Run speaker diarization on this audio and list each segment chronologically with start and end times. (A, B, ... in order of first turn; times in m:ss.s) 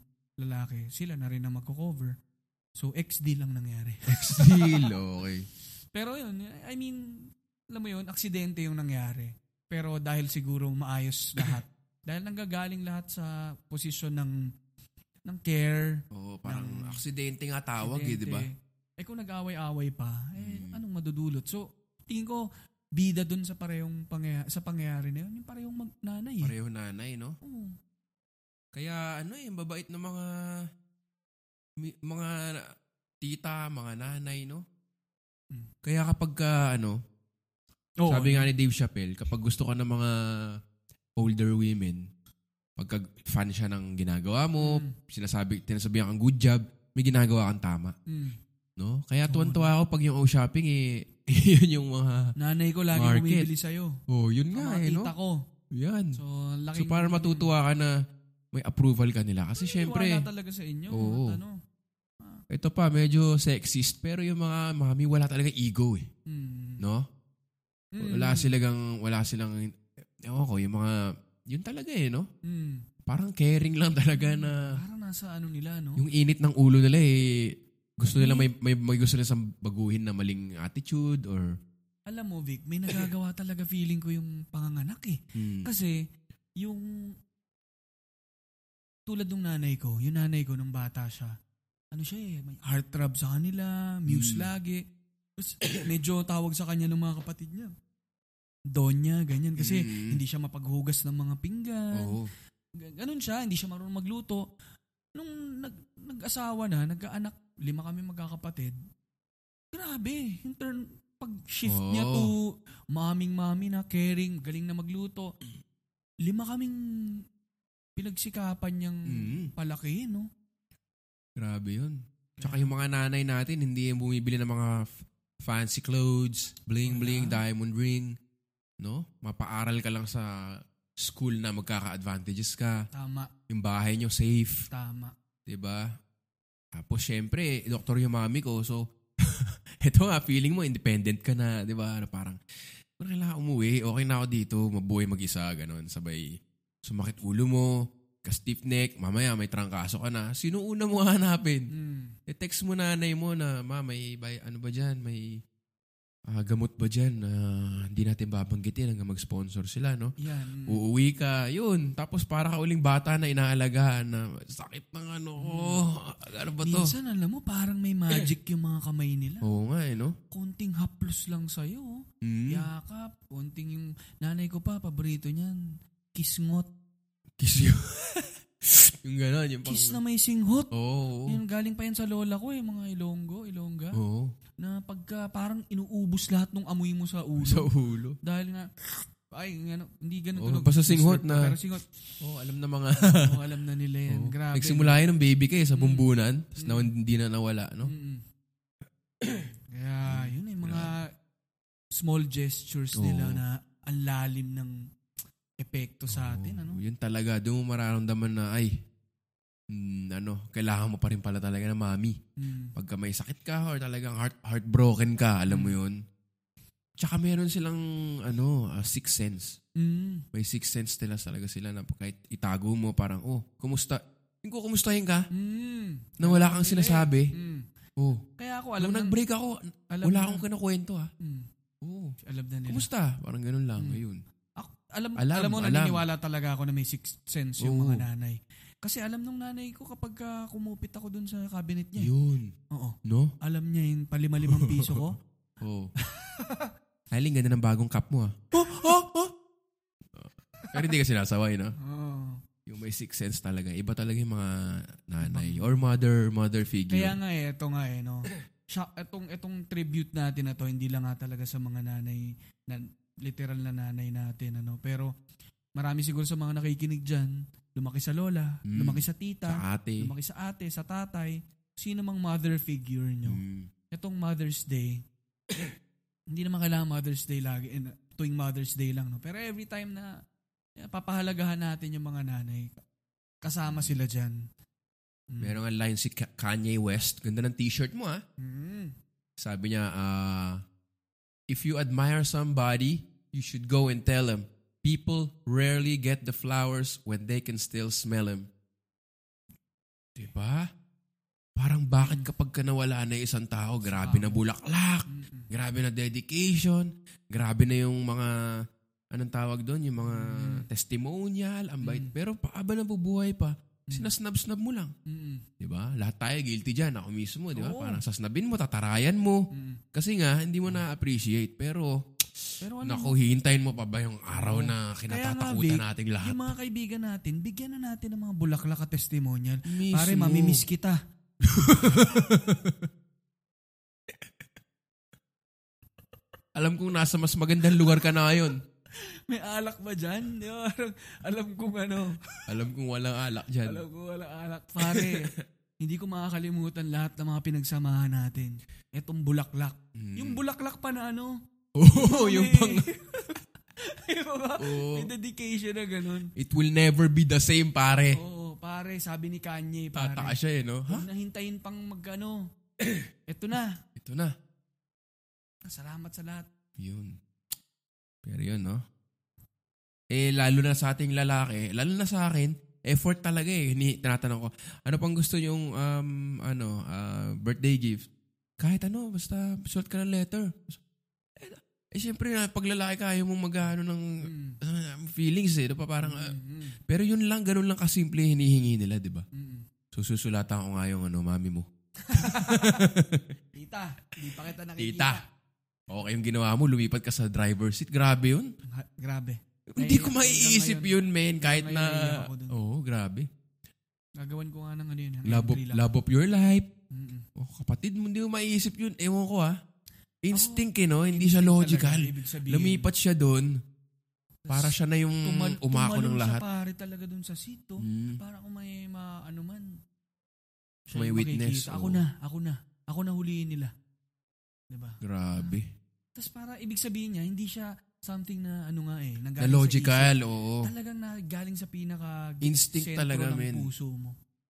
0:00.4-0:02.1 A
0:02.8-0:04.9 A
0:04.1-0:05.5 B
0:05.9-0:07.2 A
0:07.7-0:14.4 A
0:15.2-0:17.0 A
0:16.1-0:18.4 B
0:17.8-0:22.4 A
0:20.4-0:20.8 B
0:23.0-0:26.5 A
0:26.4-0:27.3 B
0:27.4-0:27.7 A
0:28.7-0:30.3 B
0:31.8-0:32.6 B
0:33.2-0:34.6 B
0:35.8-0:37.0 B
0:38.0-0:38.5 A
0:38.1-0:40.1 B
0:41.2-0:42.0 B
0:42.8-0:47.9 B
0:44.6-0:44.9 A
0:48.1-0:48.4 A
0:48.8-0:52.3 B
0:49.2-0:49.7 A
0:52.4-0:53.9 A
0:52.9-0:53.5 B
0:54.1-0:55.1 B
0:54.5-0:55.4 A
0:55.7-0:56.2 B
0:56.1-0:57.5 A
0:56.7-0:57.9 B
0:58.5-1:00.2 B
0:59.8-1:01.6 A
1:00.9-1:01.4 B
1:02.5-1:06.0 B
1:06.3-1:06.8 A
1:06.8-1:07.0 B
1:08.0-1:08.5 A
1:08.0-1:11.0 B
1:11.5-1:12.3 B
1:12.4-1:12.8 A
1:13.0-1:14.7 B
1:14.1-1:16.0 A
1:16.0-1:21.5 B
1:18.2-1:18.5 A
1:22.1-1:26.0 A
1:25.3-1:25.7 B
1:26.6-1:26.8 A
1:29.1-1:31.3 A
1:31.9-1:34.8 A
1:34.1-1:34.5 B
1:35.4-1:37.7 A
1:38.7-1:42.2 A
1:39.6-1:40.2 B
1:41.9-1:42.3 B
1:42.8-1:44.4 A
1:45.1-1:48.8 A
1:49.7-1:55.3 A
1:51.7-1:52.3 B
1:56.2-1:56.8 A
1:58.0-2:00.3 A
1:59.1-1:59.5 B
2:01.4-2:04.9 B
2:02.4-2:02.7 A
2:05.4-2:08.1 B
2:06.8-2:07.4 A
2:08.8-2:12.8 B
2:12.9-2:13.3 A
2:13.5-2:14.6 B
2:14.7-2:15.1 A
2:15.5-2:15.9 B
2:16.7-2:22.4 B
2:23.0-2:27.7 B
2:28.2-2:31.7 B
2:31.7-2:32.1 A
2:32.3-2:35.4 B
2:36.3-2:40.1 B
2:40.2-2:40.8 A
2:40.7-2:46.9 B
2:45.4-2:45.8 A
2:46.6-2:49.5 A
2:49.4-2:50.2 B
2:50.3-2:55.6 A
2:52.2-2:52.6 B
2:56.1-2:56.7 A
2:57.4-3:00.0 B
2:59.6-3:00.7 A
3:00.7-3:01.4 B
3:01.3-3:04.0 A
3:03.9-3:04.3 B
3:04.6-3:07.7 A
3:07.4-3:08.2 B
3:08.2-3:08.7 A
3:09.3-3:11.9 A
3:10.4-3:11.6 B
3:12.2-3:13.4 B
3:13.2-3:15.0 A
3:14.1-3:17.9 B
3:15.7-3:16.1 A
3:16.6-3:16.9 A
3:17.8-3:18.2 A
3:19.2-3:19.5 B
3:19.7-3:21.1 A
3:20.0-3:20.9 B
3:22.0-3:24.8 A
3:23.0-3:23.4 B
3:25.6-3:26.8 A
3:26.1-3:28.7 B
3:29.7-3:32.2 B
3:32.4-3:32.7 A
3:32.8-3:36.0 B
3:35.5-3:35.8 A
3:37.0-3:39.6 B
3:39.8-3:40.2 A
3:40.3-3:45.2 B
3:45.3-3:47.6 A
3:46.2-3:47.3 B
3:48.4-3:49.2 A
3:48.8-3:51.1 B
3:49.9-3:50.4 A
3:51.8-3:52.1 B
3:52.2-3:52.9 A
3:52.7-3:54.2 B
3:54.6-4:02.1 A
3:55.2-3:56.0 B
3:57.6-3:58.0 B
4:02.0-4:02.5 B
4:02.7-4:05.2 A
4:03.0-4:03.3 B
4:04.4-4:05.0 B
4:05.6-4:05.9 B
4:06.0-4:06.7 A
4:07.1-4:09.3 B
4:10.1-4:11.7 B
4:11.8-4:12.4 A
4:12.6-4:17.2 B
4:15.2-4:15.8 A
4:16.9-4:25.1 A
4:25.8-4:33.4 A
4:28.7-4:30.1 B
4:33.3-4:33.7 B
4:33.9-4:35.0 A
4:36.3-4:40.1 A
4:40.8-4:42.8 A
4:43.4-4:44.4 A
4:43.7-4:43.9 B
4:45.3-4:45.6 A
4:45.4-4:48.2 B
4:48.4-4:48.9 A
4:49.4-4:50.6 B
4:51.5-4:58.5 B
5:00.2-5:00.7 B
5:01.6-5:08.3 B
5:02.0-5:02.3 A
5:03.8-5:04.4 A
5:05.1-5:05.5 A
5:09.1-5:14.9 B
5:10.0-5:10.6 A
5:11.8-5:12.1 A
5:15.1-5:15.4 A
5:15.6-5:19.4 B
5:17.5-5:18.0 A
5:19.5-5:19.8 A
5:19.9-5:26.5 B
5:22.6-5:23.2 A
5:24.3-5:31.0 A
5:29.7-5:30.6 B
5:31.4-5:32.9 B
5:36.6-5:38.6 B
5:39.3-5:42.2 A
5:42.5-5:43.8 B
5:43.6-5:51.4 A
5:44.8-5:45.2 B
5:49.9-5:50.4 B
5:51.8-5:52.8 B
5:51.9-5:56.3 A
5:54.6-5:55.1 B
5:56.4-5:58.2 B
5:58.1-6:00.4 A
5:59.9-6:01.0 B
6:00.9-6:02.5 A
6:02.8-6:03.0 B
6:03.3-6:03.8 A
6:04.0-6:04.3 B
6:05.6-6:06.5 A
6:06.8-6:07.1 B
6:08.2-6:08.8 B
6:10.1-6:18.1 B
6:18.6-6:20.8 B
6:21.4-6:24.0 B
6:24.2-6:24.6 A
6:24.6-6:26.3 B
6:26.0-6:26.8 A
6:26.9-6:29.2 B
6:29.3-6:29.6 A
6:29.9-6:33.3 B
6:32.0-6:32.8 A
6:33.5-6:35.2 A
6:34.8-6:35.2 B
6:35.9-6:38.5 B
6:38.7-6:42.6 A
6:39.7-6:43.3 B
6:44.2-6:45.8 A
6:45.3-6:46.7 B
6:46.9-6:47.2 A
6:47.4-6:49.5 B
6:50.2-6:53.5 B
6:50.3-6:52.9 A
6:54.4-6:59.8 A
6:54.5-6:56.4 B
6:57.8-6:58.2 B
7:00.9-7:03.7 A
7:00.9-7:02.0 B
7:04.7-7:05.6 A
7:05.0-7:05.7 B
7:06.2-7:14.1 A
7:09.4-7:10.7 B
7:12.4-7:13.7 B